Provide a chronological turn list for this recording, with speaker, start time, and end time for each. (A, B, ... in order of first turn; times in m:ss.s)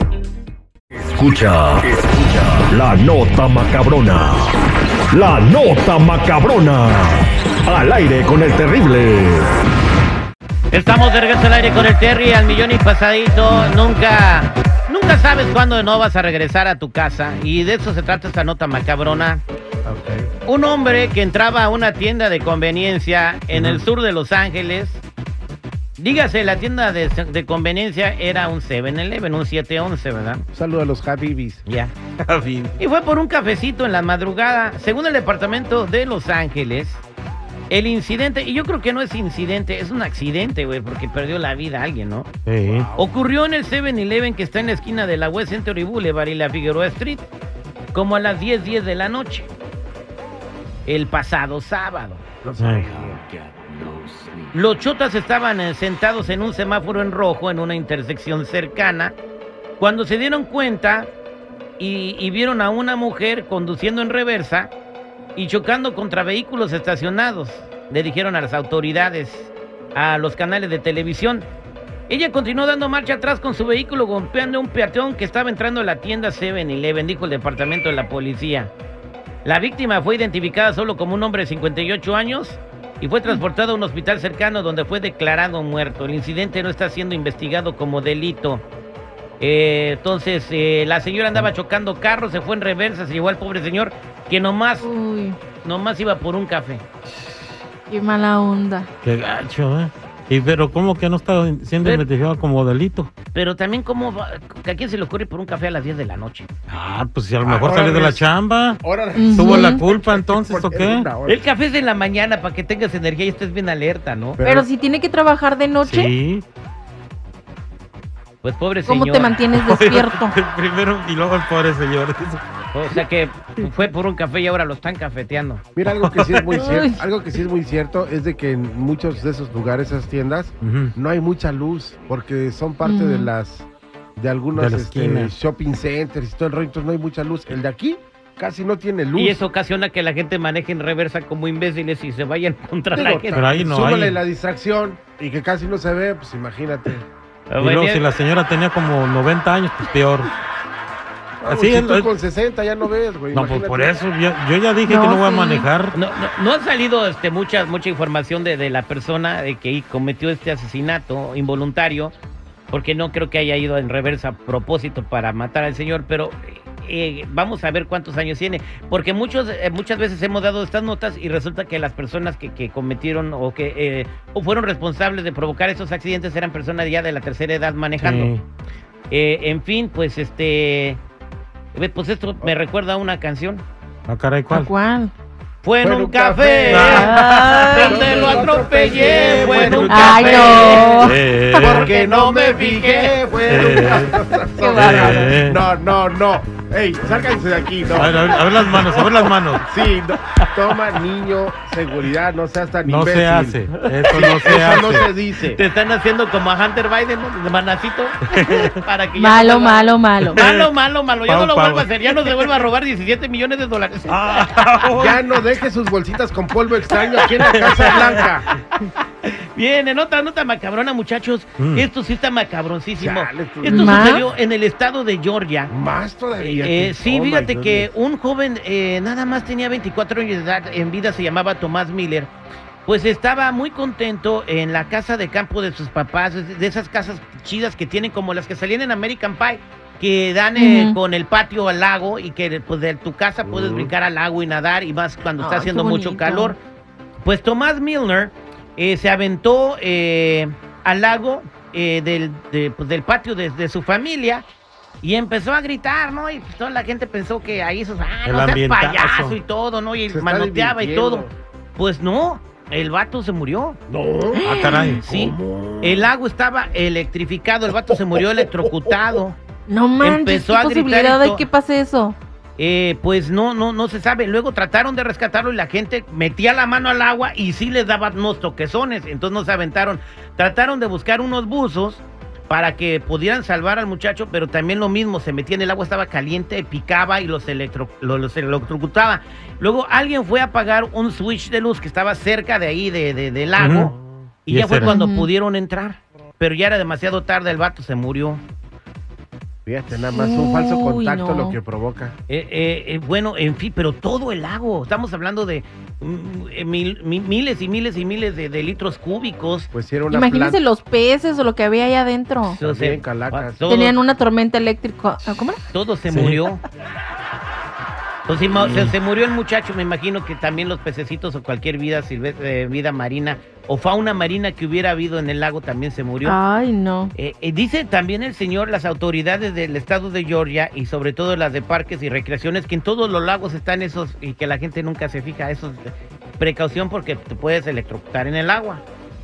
0:01.0-0:04.5 A
0:05.1-0:09.5 A
0:10.7-0:19.4 B
0:19.8-0:20.3 C
0:20.5-0:25.0 B
0:23.5-0:23.8 D
0:26.0-0:30.5 B
0:30.5-0:31.6 C
0:31.7-0:31.9 B
0:32.2-0:32.8 D
0:32.8-0:37.0 B
0:37.7-0:42.3 B
0:42.5-0:42.9 D
0:42.6-0:43.1 C
0:43.0-0:47.3 B
0:47.9-0:49.5 B
0:50.8-0:52.2 B
0:52.4-0:54.5 C
0:52.6-0:52.9 D
0:54.5-0:59.2 B
0:59.8-1:01.1 B
1:01.8-1:04.7 B
1:05.4-1:11.5 B
1:12.1-1:18.7 B
1:19.4-1:28.7 B
1:29.4-1:34.9 B
1:34.8-1:35.4 E
1:35.6-1:36.8 B
1:37.9-1:38.9 E
1:39.0-1:43.1 D
1:41.8-1:42.1 B
1:43.3-1:46.5 B
1:46.7-1:51.1 D
1:47.4-1:48.3 C
1:48.8-1:51.4 C
1:49.2-1:49.8 E
1:51.3-1:54.4 B
1:54.4-1:54.7 C
1:54.4-1:56.1 E
1:55.8-1:56.4 D
1:58.4-1:59.4 B
1:58.9-2:00.3 E
1:59.5-2:02.4 D
2:02.7-2:05.6 B
2:05.8-2:19.4 C
2:05.9-2:06.6 D
2:06.5-2:07.0 E
2:10.6-2:10.9 D
2:12.8-2:13.3 E
2:14.5-2:15.3 D
2:19.2-2:23.5 B
2:22.9-2:27.0 C
2:23.3-2:24.2 D
2:27.5-2:28.1 B
2:27.6-2:30.3 D
2:31.4-2:34.0 C
2:31.5-2:32.1 D
2:33.3-2:35.9 D
2:34.9-2:35.7 E
2:35.9-2:42.1 B
2:42.7-2:58.3 B
2:58.0-2:58.4 D
2:59.1-3:01.0 B
3:01.7-3:03.6 B
3:04.1-3:04.7 D
3:04.5-3:05.1 E
3:05.6-3:13.2 B
3:05.8-3:07.2 C
3:06.7-3:07.8 D
3:06.9-3:08.5 E
3:07.8-3:19.0 C
3:09.4-3:09.9 D
3:09.8-3:11.2 E
3:10.9-3:11.9 D
3:13.5-3:14.2 D
3:14.6-3:15.1 E
3:14.8-3:15.6 D
3:17.9-3:19.6 D
3:19.6-3:25.6 C
3:22.9-3:25.1 D
3:24.1-3:24.4 B
3:25.5-3:34.3 B
3:28.3-3:28.8 D
3:29.2-3:30.4 E
3:30.4-3:30.7 D
3:31.3-3:32.3 D
3:34.1-3:35.2 D
3:35.0-3:38.5 C
3:37.2-3:38.3 D
3:39.2-3:45.7 B
3:41.6-3:41.8 D
3:43.0-3:44.1 C
3:43.6-3:44.2 E
3:45.7-3:47.9 C
3:46.4-3:52.3 B
3:52.9-4:06.6 B
4:00.6-4:01.0 E
4:03.4-4:03.9 C
4:05.4-4:06.6 E
4:07.2-4:14.4 B
4:15.0-4:23.8 B
4:18.2-4:19.4 D
4:20.1-4:21.3 C
4:23.9-4:24.5 C
4:24.4-4:25.0 E
4:24.4-4:25.0 D
4:24.5-4:29.4 B
4:25.0-4:26.1 C
4:27.9-4:29.0 C
4:29.7-4:32.2 E
4:30.0-4:31.5 B
4:32.6-4:53.9 B
4:53.6-4:54.0 D
4:54.5-4:58.4 B
4:54.5-4:55.0 D
4:54.8-4:55.3 E
4:59.6-5:02.2 C
4:59.9-5:01.6 E
5:02.3-5:09.7 B
5:09.7-5:10.6 C
5:10.1-5:12.6 E
5:12.4-5:14.0 B
5:12.6-5:13.6 C
5:13.7-5:15.6 E
5:15.7-5:16.6 B
5:16.1-5:16.4 D
5:18.3-5:26.4 B
5:18.5-5:18.9 D
5:26.2-5:27.1 E
5:27.1-5:38.8 B